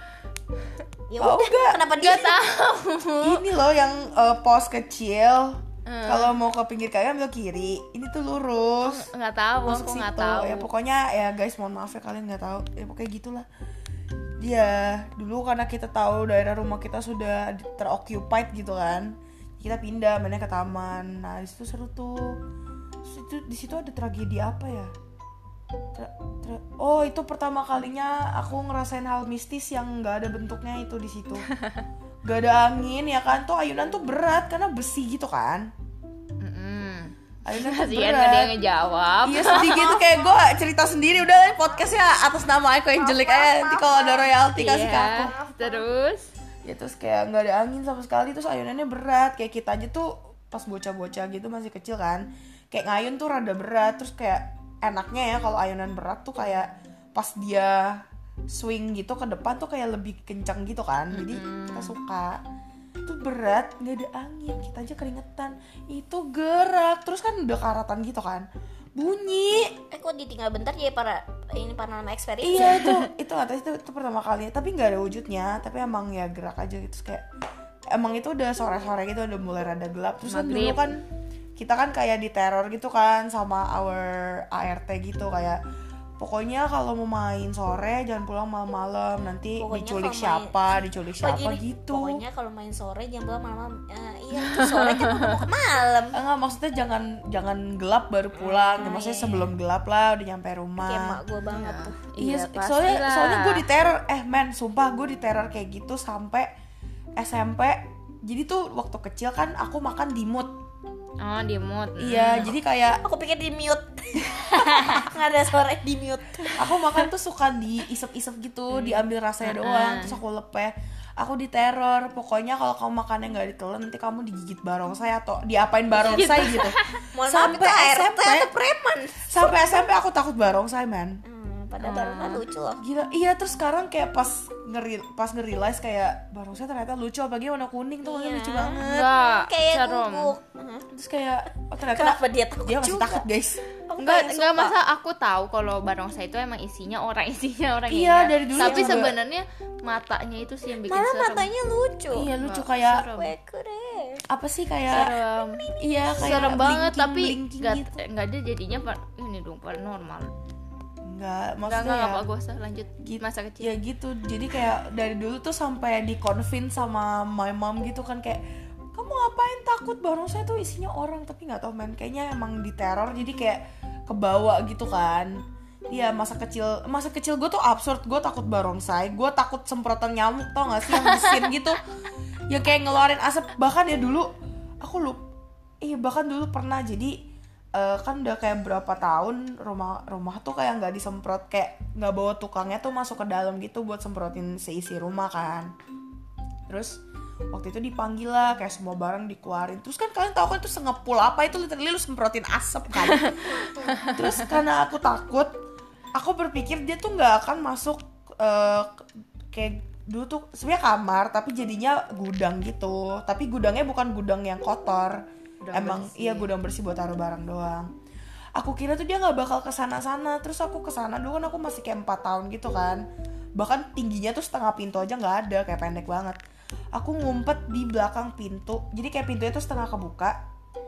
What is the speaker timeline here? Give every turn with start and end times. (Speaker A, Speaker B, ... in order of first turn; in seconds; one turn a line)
Speaker A: 1.1-2.4
Speaker B: 1.2-1.9
Speaker C: 2.0-3.5
Speaker B: 3.2-9.1
Speaker C: 5.9-6.3
Speaker C: 8.8-10.7
Speaker B: 9.7-13.5
Speaker B: 14.4-22.4
Speaker B: 23.0-24.9
Speaker B: 25.9-31.5
Speaker B: 32.2-35.7
Speaker C: 36.4-40.0
Speaker B: 37.5-38.5
Speaker B: 39.2-45.4
Speaker A: 39.8-40.3
Speaker A: 43.0-44.3
Speaker C: 44.6-46.3
Speaker A: 45.3-45.9
Speaker B: 46.6-62.4
Speaker C: 61.1-62.0
Speaker B: 63.0-69.8
Speaker A: 69.9-72.9
Speaker B: 72.4-77.3
Speaker C: 72.6-73.0
Speaker B: 77.9-81.0
Speaker C: 80.3-80.9
Speaker B: 81.6-85.6
Speaker B: 86.2-92.2
Speaker A: 89.6-90.6
Speaker A: 91.2-96.2
Speaker C: 94.4-95.4
Speaker B: 96.1-101.2
Speaker A: 98.4-99.5
Speaker A: 100.8-102.0
Speaker C: 101.5-103.7
Speaker B: 102.2-106.5
Speaker B: 107.2-110.6
Speaker C: 111.2-112.5
Speaker B: 112.0-113.0
Speaker A: 113.0-116.8
Speaker C: 114.6-115.0
Speaker B: 116.6-128.5
Speaker C: 118.7-120.2
Speaker C: 126.0-127.0
Speaker A: 127.1-129.6
Speaker B: 129.2-131.2
Speaker A: 131.2-132.8
Speaker C: 131.8-132.4
Speaker B: 132.8-139.1
Speaker A: 138.0-140.9
Speaker C: 138.8-140.3
Speaker B: 140.9-143.6
Speaker A: 141.8-143.2
Speaker A: 143.9-144.8
Speaker C: 144.0-151.5
Speaker B: 147.9-149.2
Speaker A: 148.6-149.1
Speaker A: 150.8-152.3
Speaker B: 152.1-153.1
Speaker C: 152.4-153.3
Speaker A: 153.0-154.2
Speaker B: 154.3-155.1
Speaker C: 154.9-160.3
Speaker A: 155.3-155.7
Speaker B: 155.8-158.0
Speaker B: 161.1-162.2
Speaker C: 161.7-163.8
Speaker B: 163.0-181.8
Speaker C: 181.0-181.4
Speaker B: 182.5-185.2
Speaker B: 185.8-195.7
Speaker B: 196.7-205.6
Speaker C: 203.2-204.3
Speaker B: 206.1-217.9
Speaker C: 215.6-216.5
Speaker B: 218.6-226.4
Speaker B: 226.9-230.4